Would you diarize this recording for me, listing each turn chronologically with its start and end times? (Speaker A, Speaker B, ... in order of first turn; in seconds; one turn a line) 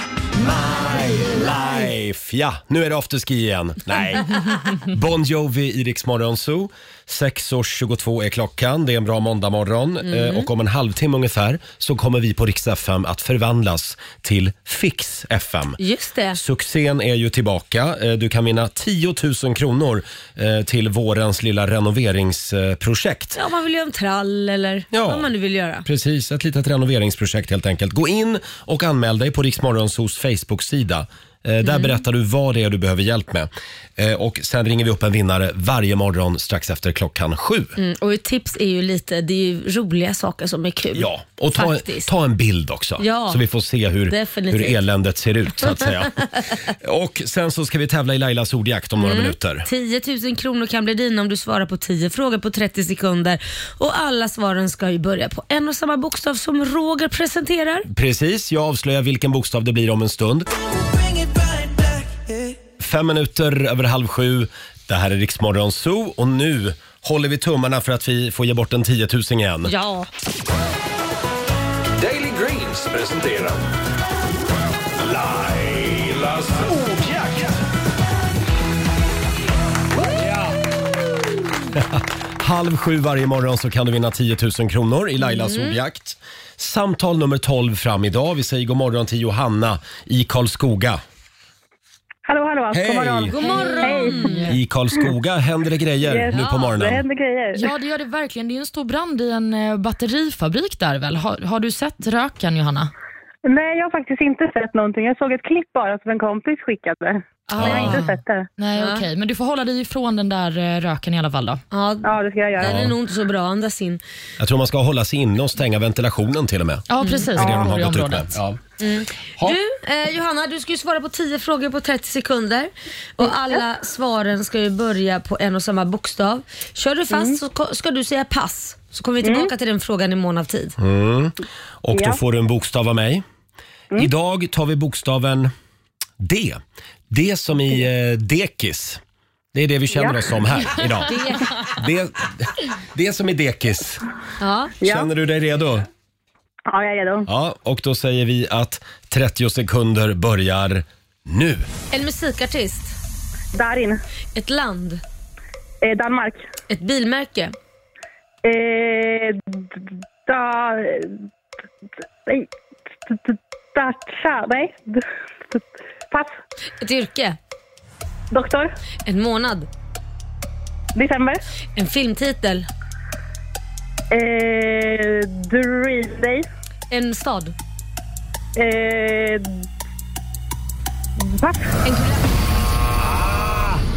Speaker A: 0.4-15.8
Speaker B: 10.1-10.5
Speaker B: 15.8-16.4
Speaker A: 16.3-23.4
Speaker B: 23.4-25.9
Speaker A: 24.9-25.3
Speaker A: 25.8-37.7
Speaker B: 31.6-32.0
Speaker B: 37.8-42.1
Speaker A: 41.0-49.7
Speaker B: 43.0-43.4
Speaker B: 44.1-44.8
Speaker B: 45.7-46.5
Speaker B: 49.0-57.9
Speaker A: 57.9-60.5
Speaker A: 62.8-69.7
Speaker B: 69.7-70.1
Speaker C: 72.0-73.6
Speaker C: 75.0-77.6
Speaker C: 80.2-80.5
Speaker A: 81.8-91.0
Speaker B: 85.3-85.8
Speaker D: 92.3-94.4
Speaker A: 92.7-93.3
Speaker B: 93.3-94.5
Speaker E: 93.3-94.5
Speaker A: 94.5-97.0
Speaker D: 96.0-97.7
Speaker B: 96.3-96.7
Speaker E: 97.5-102.9
Speaker D: 103.5-108.5
Speaker A: 107.6-108.0
Speaker B: 107.6-108.0
Speaker E: 108.6-111.6
Speaker B: 108.8-109.0
Speaker B: 111.7-114.0
Speaker D: 112.0-112.8
Speaker A: 112.6-113.0
Speaker A: 114.4-118.6
Speaker E: 116.9-118.3
Speaker B: 117.0-117.3
Speaker D: 117.4-117.7
Speaker B: 118.8-130.8
Speaker D: 127.1-127.4
Speaker D: 129.2-129.5
Speaker A: 130.8-133.2
Speaker D: 131.9-132.2
Speaker A: 134.0-135.5
Speaker A: 136.2-139.0
Speaker A: 139.5-144.0
Speaker D: 140.0-140.4
Speaker B: 141.1-141.6
Speaker B: 144.4-144.7
Speaker D: 144.8-145.1
Speaker A: 144.8-145.9
Speaker D: 146.7-147.3
Speaker A: 147.3-151.7
Speaker B: 151.9-153.0
Speaker D: 153.6-154.0
Speaker B: 154.4-155.0
Speaker D: 155.8-156.4
Speaker B: 156.7-157.6
Speaker D: 158.4-161.1
Speaker D: 163.1-166.3
Speaker B: 166.8-167.4
Speaker D: 168.3-168.7
Speaker B: 169.1-169.7
Speaker D: 170.9-171.4
Speaker B: 171.8-172.7
Speaker D: 174.1-176.4
Speaker B: 176.9-177.6
Speaker D: 178.6-179.4
Speaker D: 181.2-181.7
Speaker B: 181.8-182.2